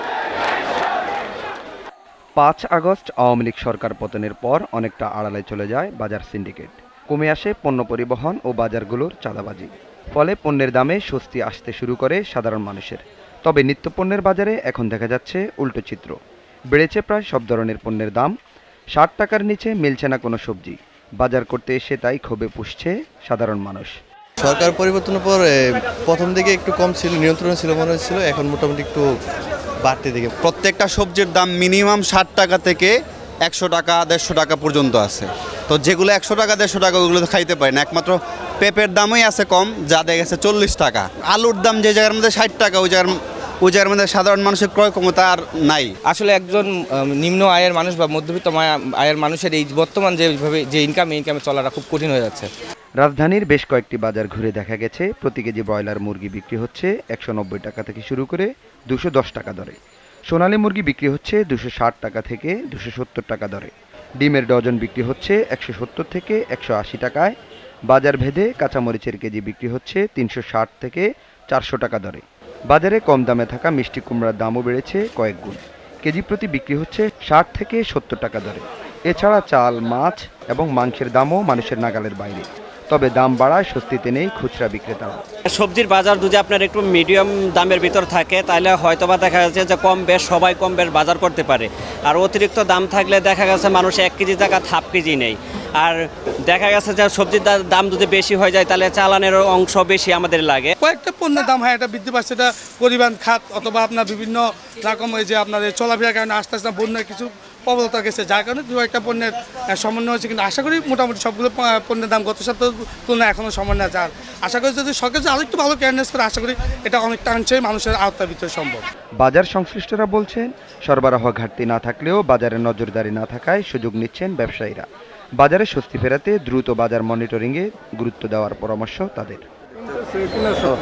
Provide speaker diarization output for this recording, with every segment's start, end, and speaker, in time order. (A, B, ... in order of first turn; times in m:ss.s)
0:02.4-0:16.2 A
0:16.7-0:18.3 A
0:19.0-0:23.9 A
0:24.4-0:29.1 B
0:29.8-0:30.3 B
0:30.4-0:45.9 C
0:46.0-0:52.5 D
0:53.0-0:59.8 A
1:00.3-1:07.4 A
1:07.9-1:25.2 A
1:25.5-1:40.7 E
1:40.8-1:58.8 F
1:59.2-2:04.9 A
2:05.4-2:09.4 A